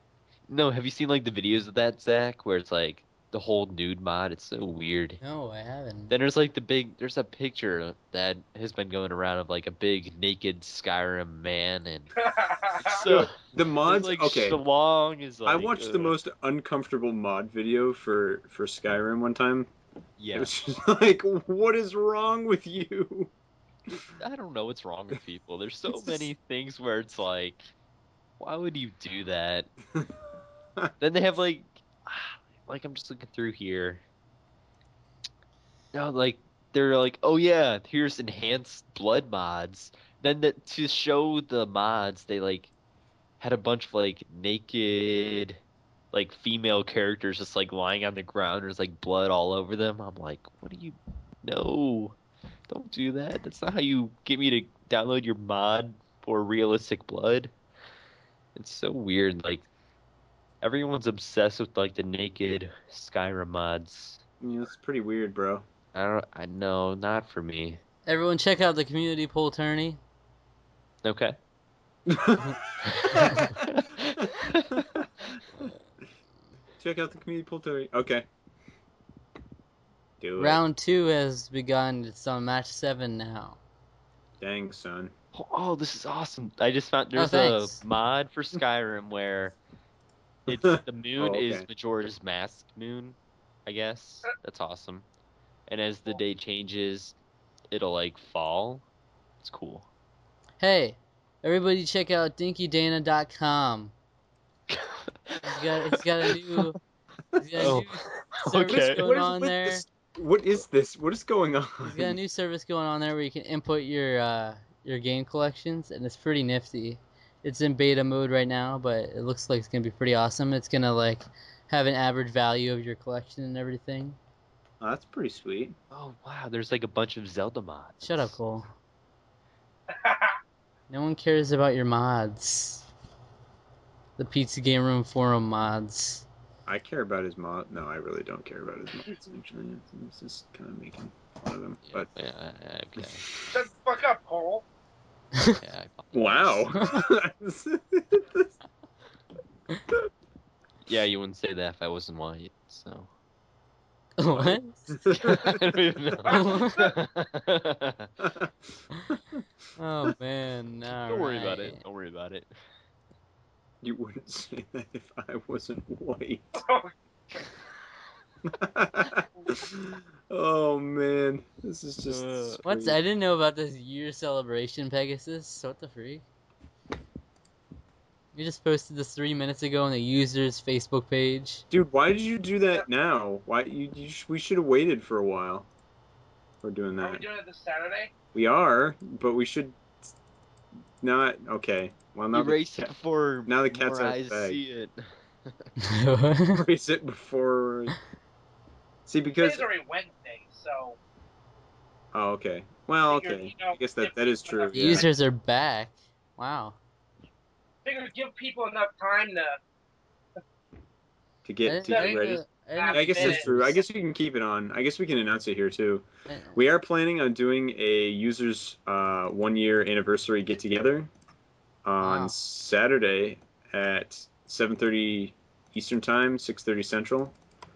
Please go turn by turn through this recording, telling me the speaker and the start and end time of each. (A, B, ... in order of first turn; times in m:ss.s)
0:00.5-0:05.2 A
0:05.2-0:06.1 B
0:06.1-0:12.1 A
0:12.2-0:13.0 C
0:12.7-0:16.2 A
0:13.0-0:14.6 D
0:15.4-0:19.7 D
0:20.2-0:20.5 A
0:20.3-0:23.3 D
0:24.2-0:27.7 A
0:25.9-0:26.3 D
0:28.4-0:29.7 A
0:31.0-0:34.0 A
0:35.9-0:42.7 A
0:43.4-0:45.6 A
0:46.1-0:52.2 A
0:52.7-0:57.5 A
0:58.5-0:59.6 A
1:00.6-1:04.2 A
1:04.4-1:05.6 D
1:05.9-1:07.8 A
1:08.1-1:10.0 B
1:11.0-1:11.4 A
1:12.1-1:13.6 D
1:12.8-1:14.7 A
1:14.7-1:15.1 D
1:16.8-1:18.3 D
1:20.2-1:20.6 D
1:20.4-1:23.6 B
1:24.4-1:25.1 D
1:25.3-1:29.6 A
1:27.2-1:27.8 B
1:30.5-1:31.7 D
1:30.5-1:35.0 A
1:35.7-1:37.1 A
1:37.7-1:38.8 A
1:39.4-1:39.8 A
1:40.6-1:43.9 B
1:44.7-1:46.7 A
1:45.4-1:46.8 B
1:47.4-1:49.8 B
1:47.6-1:49.1 A
1:48.7-1:52.2 D
1:51.8-2:04.2 B
2:04.8-2:05.7 D
2:05.9-2:08.3 A
2:08.0-2:08.6 B
2:09.9-2:10.4 C
2:10.9-2:12.8 B
2:14.2-2:16.3 B
2:16.6-2:22.1 D
2:21.8-2:23.3 A
2:23.0-2:23.5 D
2:23.5-2:24.6 C
2:25.6-2:26.7 A
2:26.1-2:28.5 D
2:30.8-2:33.1 A
2:34.2-2:35.0 B
2:34.4-2:35.6 D
2:35.1-2:38.1 A
2:36.3-2:36.9 B
2:36.3-2:36.6 C
2:38.2-2:38.5 D
2:39.8-2:41.8 B
2:41.1-2:42.5 A
2:43.8-2:46.6 D
2:46.6-2:46.9 C
2:48.4-2:53.0 D
2:52.1-2:52.6 A
2:52.6-2:56.2 B
2:58.3-3:01.6 B
3:01.7-3:05.7 D
3:06.6-3:07.2 D
3:07.0-3:08.1 C
3:08.3-3:09.8 D
3:11.0-3:12.8 D
3:12.3-3:15.7 A
3:13.5-3:14.6 D
3:15.8-3:16.6 B
3:16.5-3:17.9 D
3:19.0-3:19.7 D
3:19.4-3:21.0 C
3:22.1-3:25.0 D
3:23.1-3:25.1 C
3:24.7-3:26.8 B
3:27.8-3:29.6 C
3:31.4-3:41.1 D
3:31.6-3:33.8 B
3:31.9-3:33.5 C
3:36.3-3:36.6 B
3:41.8-3:47.3 D
3:42.0-3:42.4 B